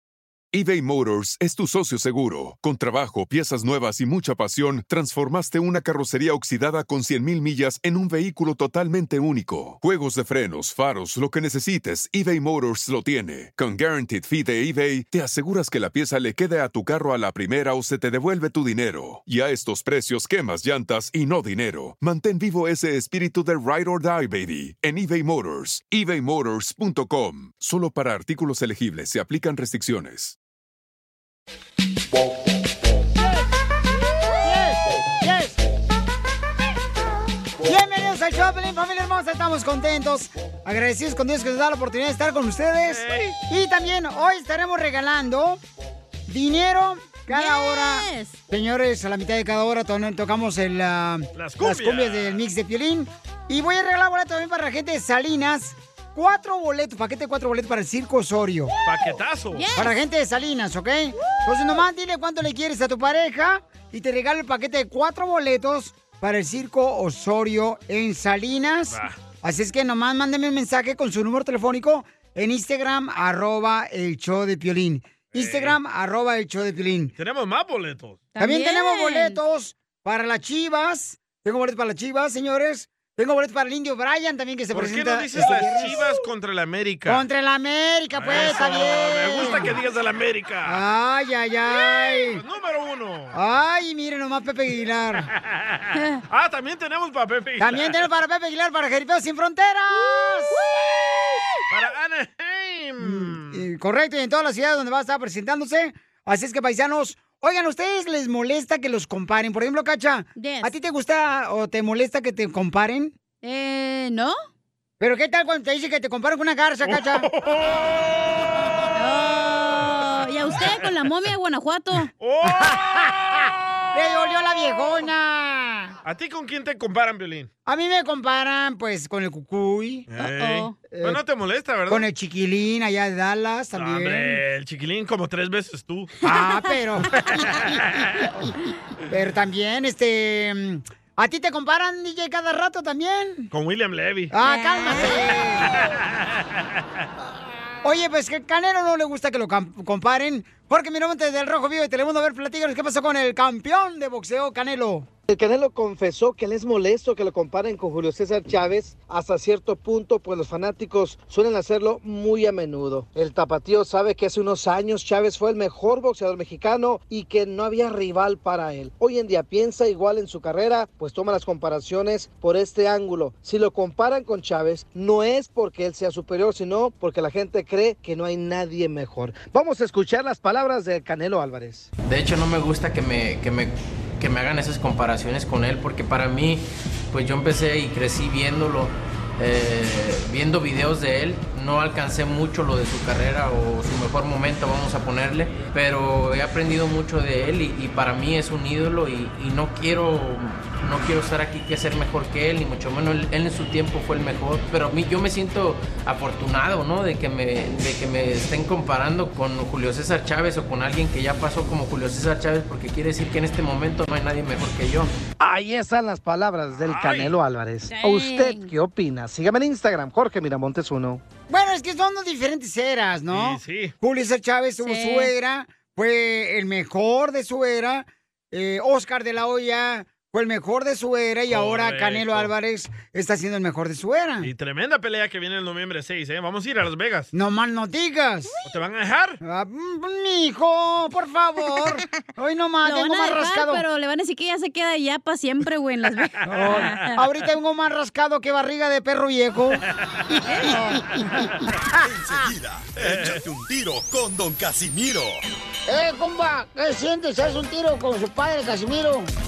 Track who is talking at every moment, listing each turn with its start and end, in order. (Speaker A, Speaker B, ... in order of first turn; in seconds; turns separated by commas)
Speaker A: 0.5-30.4, Speaker B: 33.2-33.5, Speaker B: 34.4-35.6, Speaker B: 37.6-45.6, Speaker C: 42.9-43.4, Speaker B: 46.3-58.8, Speaker D: 47.3-48.4, Speaker C: 51.3-52.4, Speaker C: 58.8-59.7, Speaker D: 59.5-60.0, Speaker B: 59.8-77.1, Speaker C: 68.9-69.2, Speaker C: 75.3-75.8, Speaker C: 77.2-78.3, Speaker D: 78.3-79.4, Speaker B: 78.4-86.1, Speaker C: 84.7-87.2, Speaker B: 87.1-89.7, Speaker C: 88.2-90.8, Speaker B: 90.7-92.4, Speaker C: 92.3-93.3, Speaker B: 93.3-95.3, Speaker C: 95.5-98.0, Speaker D: 96.0-96.2, Speaker B: 97.6-100.6, Speaker D: 100.5-100.9, Speaker C: 101.7-103.6, Speaker B: 103.0-113.2, Speaker D: 110.4-110.7, Speaker D: 113.4-114.4, Speaker B: 115.0-117.3, Speaker C: 116.8-118.3, Speaker D: 118.9-122.1, Speaker C: 122.2-123.5, Speaker B: 122.5-123.0, Speaker B: 123.9-126.0, Speaker C: 126.0-127.5, Speaker B: 127.7-130.1, Speaker C: 130.1-132.1, Speaker D: 130.2-130.7, Speaker B: 130.8-131.2, Speaker B: 131.9-134.4, Speaker C: 133.8-136.1, Speaker B: 136.2-137.2, Speaker C: 137.3-138.3, Speaker B: 139.1-143.5, Speaker C: 143.5-144.3, Speaker B: 144.3-145.7, Speaker D: 144.4-145.2, Speaker C: 145.7-146.3, Speaker B: 147.8-155.1, Speaker E: 155.3-181.9, Speaker F: 182.1-215.1, Speaker E: 215.4-221.2, Speaker C: 216.9-217.4, Speaker D: 217.9-218.7, Speaker B: 221.5-234.5, Speaker C: 223.3-223.9, Speaker D: 224.8-225.3, Speaker C: 231.5-232.5, Speaker C: 234.4-237.3, Speaker B: 237.3-238.5, Speaker C: 238.6-239.4, Speaker B: 239.4-243.8, Speaker D: 242.8-247.2, Speaker B: 246.4-249.8, Speaker D: 250.4-250.8, Speaker B: 250.7-251.5, Speaker G: 252.0-255.4, Speaker C: 253.0-253.4, Speaker B: 255.9-259.3